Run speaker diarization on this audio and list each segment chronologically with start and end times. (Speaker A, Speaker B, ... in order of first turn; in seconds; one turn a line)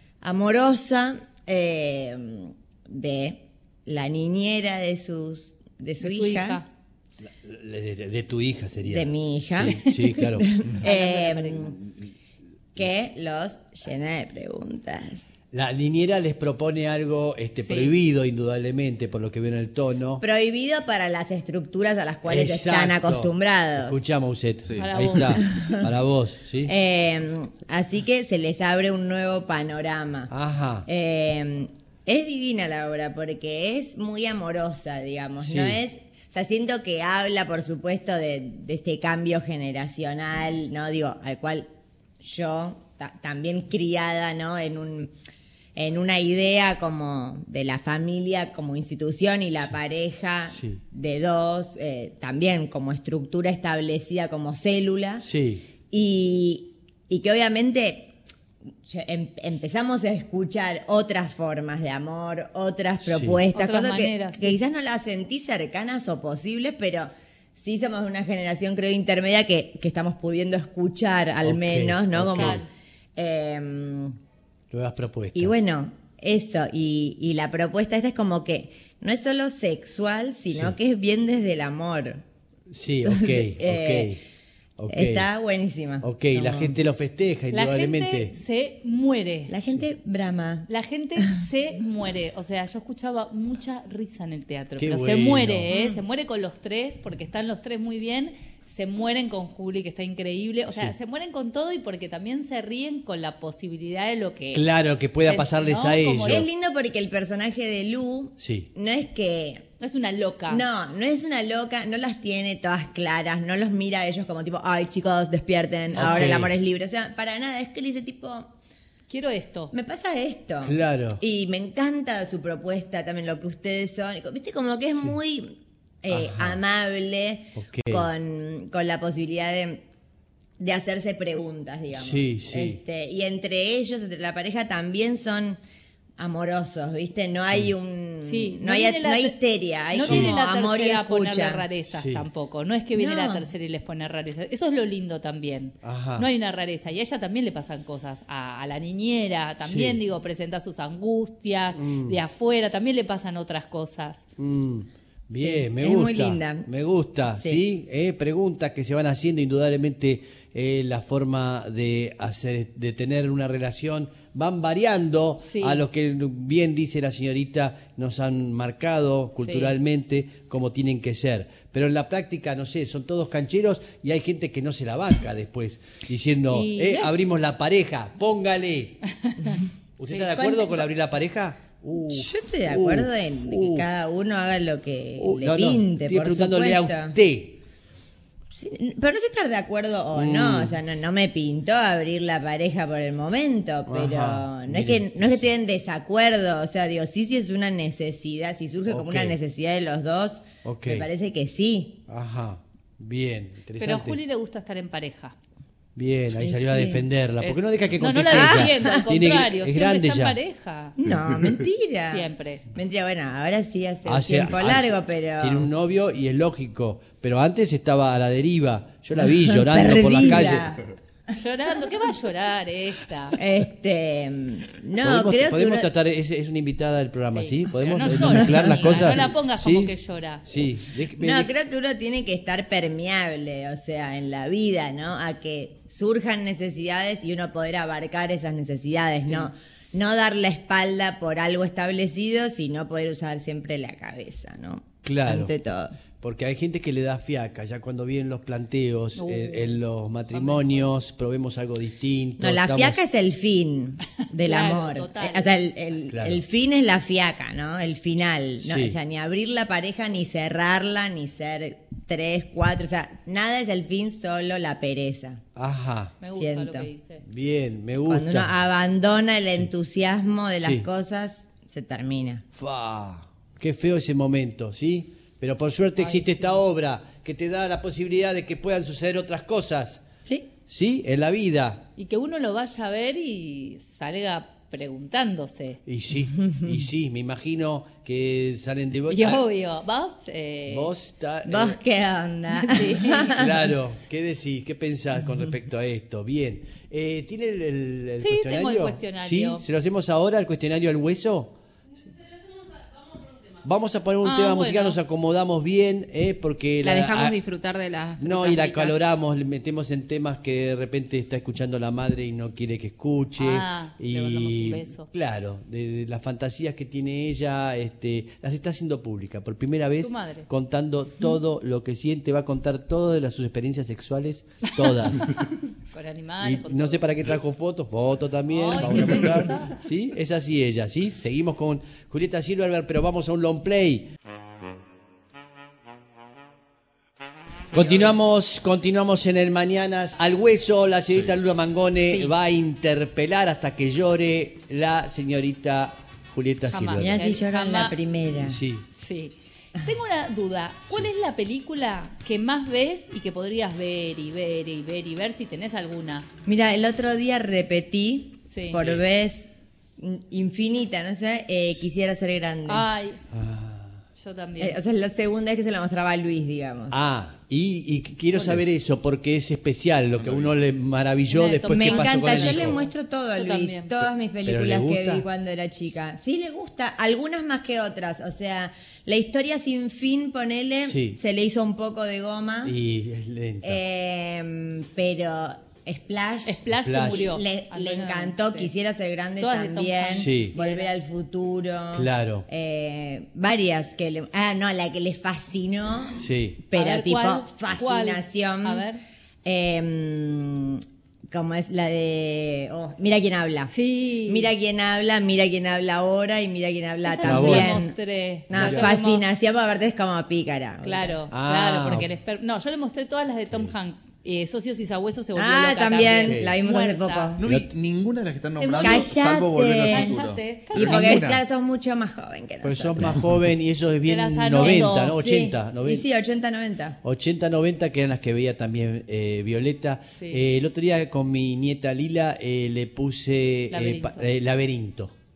Speaker A: 0.2-6.6
Speaker B: 6.0-6.7
Speaker C: 7.2-10.5
Speaker A: 8.8-11.8
Speaker B: 10.8-11.8
Speaker A: 12.8-15.2
Speaker C: 15.5-20.2
Speaker B: 17.6-17.9
Speaker A: 20.2-24.0
Speaker C: 22.2-26.7
Speaker D: 24.7-24.9
Speaker B: 24.8-25.6
Speaker A: 25.3-25.9
Speaker A: 26.6-30.3
Speaker C: 30.3-30.9
Speaker A: 30.9-41.7
Speaker C: 35.4-35.8
Speaker A: 42.2-45.1
Speaker A: 45.8-55.3
Speaker C: 50.5-50.8
Speaker C: 55.2-55.6
Speaker A: 55.9-58.1
Speaker A: 58.8-72.6
Speaker C: 63.1-63.4
Speaker B: 63.5-64.6
Speaker C: 71.4-72.6
Speaker B: 72.3-72.7
Speaker A: 73.2-74.2
Speaker C: 74.7-75.5
Speaker A: 75.3-82.2
Speaker C: 82.7-84.2
Speaker A: 83.0-84.2
Speaker C: 84.8-85.3
Speaker A: 84.9-86.8
Speaker C: 86.0-88.3
Speaker B: 87.5-89.6
Speaker A: 89.5-90.7
Speaker B: 90.7-104.7
Speaker C: 94.8-95.7
Speaker A: 95.7-96.0
Speaker C: 100.7-100.9
Speaker C: 104.5-106.5
Speaker B: 105.2-106.4
Speaker A: 106.2-109.7
Speaker C: 108.4-108.7
Speaker B: 109.8-110.6
Speaker A: 110.5-118.5
Speaker C: 115.9-116.5
Speaker B: 119.1-119.7
Speaker A: 119.7-129.8
Speaker C: 120.6-121.2
Speaker C: 126.1-126.6
Speaker C: 127.6-128.1
Speaker A: 130.6-135.6
Speaker C: 131.9-132.8
Speaker A: 136.2-141.7
Speaker B: 138.2-139.4
Speaker B: 139.9-154.2
Speaker C: 140.0-140.3
Speaker C: 141.9-142.2
Speaker A: 142.9-143.5
Speaker C: 145.8-146.3
Speaker C: 149.7-150.0
Speaker C: 151.8-152.2
Speaker C: 154.4-179.0
Speaker A: 155.4-156.7
Speaker A: 157.3-157.6
Speaker B: 165.4-165.8
Speaker B: 169.4-169.8
Speaker B: 176.5-177.1
Speaker B: 179.2-179.6
Speaker C: 180.0-183.9
Speaker A: 180.2-180.9
Speaker A: 182.1-187.2
Speaker C: 185.2-187.6
Speaker A: 188.5-202.0
Speaker C: 190.1-190.8
Speaker C: 193.9-195.5
Speaker C: 198.9-199.4
Speaker C: 200.6-201.1
Speaker C: 202.1-204.2
Speaker B: 203.8-205.4
Speaker C: 205.9-210.4
Speaker A: 206.4-207.1
Speaker B: 207.4-210.9
Speaker A: 208.3-209.1
Speaker A: 211.0-215.7
Speaker D: 211.1-211.6
Speaker B: 212.1-212.6
Speaker C: 214.1-220.8
Speaker A: 219.2-221.4
Speaker B: 221.3-223.4
Speaker A: 223.3-225.9
Speaker C: 225.0-229.9
Speaker B: 227.3-230.4
Speaker A: 228.1-229.3
Speaker C: 230.4-231.5
Speaker A: 231.2-245.9
Speaker C: 245.0-245.5
Speaker C: 246.2-253.0
Speaker B: 249.2-249.8
Speaker B: 250.3-250.9
Speaker A: 252.4-265.4
Speaker B: 254.4-255.6
Speaker C: 256.1-256.4
Speaker C: 258.6-259.0
Speaker C: 265.6-266.1
Speaker B: 266.2-267.2
Speaker A: 266.3-266.9
Speaker C: 267.2-268.5
Speaker A: 268.1-272.4
Speaker C: 270.6-270.9
Speaker C: 272.5-280.1
Speaker B: 276.1-276.5
Speaker C: 280.7-281.9
Speaker B: 282.0-285.8
Speaker C: 285.9-289.4
Speaker A: 286.5-286.8
Speaker B: 289.1-290.9
Speaker C: 290.7-291.8
Speaker A: 291.5-293.6
Speaker B: 292.5-293.4
Speaker C: 293.2-301.5
Speaker B: 298.2-299.6
Speaker C: 303.6-307.4
Speaker B: 304.2-305.0
Speaker E: 306.8-309.0
Speaker C: 308.2-325.5
Speaker B: 313.4-315.1
Speaker B: 320.0-320.5
Speaker B: 325.9-327.0
Speaker C: 326.4-334.1
Speaker B: 328.5-329.8
Speaker B: 337.7-338.1
Speaker C: 337.7-347.2
Speaker B: 346.7-348.0
Speaker A: 347.0-348.6
Speaker C: 348.4-348.9
Speaker B: 348.9-356.3
Speaker A: 356.4-362.9
Speaker B: 358.5-358.9
Speaker B: 362.7-363.2
Speaker C: 363.3-364.0
Speaker B: 364.2-364.8
Speaker A: 364.6-367.0
Speaker C: 366.9-372.8
Speaker D: 370.2-370.5
Speaker B: 371.3-373.9
Speaker A: 371.7-382.8
Speaker C: 374.4-375.2
Speaker C: 380.9-381.2
Speaker C: 382.6-383.8
Speaker A: 383.6-398.9
Speaker B: 386.5-388.7
Speaker C: 386.8-387.3
Speaker B: 389.4-390.9
Speaker C: 390.2-390.5
Speaker C: 391.9-392.5
Speaker C: 396.2-396.6
Speaker B: 396.7-399.0
Speaker A: 399.4-403.7
Speaker B: 403.7-404.5
Speaker A: 404.2-407.9
Speaker B: 407.1-409.2
Speaker C: 407.2-407.8
Speaker A: 408.5-411.2
Speaker C: 408.5-408.9
Speaker B: 410.8-417.4
Speaker C: 411.3-412.1
Speaker A: 415.3-417.4
Speaker C: 416.0-416.6
Speaker D: 417.4-421.4
Speaker C: 417.4-417.7
Speaker B: 418.6-419.2
Speaker A: 418.8-423.2
Speaker B: 419.8-421.3
Speaker C: 422.6-426.1
Speaker B: 424.1-425.2
Speaker A: 424.6-427.0
Speaker C: 427.0-435.1
Speaker B: 430.2-430.4
Speaker B: 433.7-434.3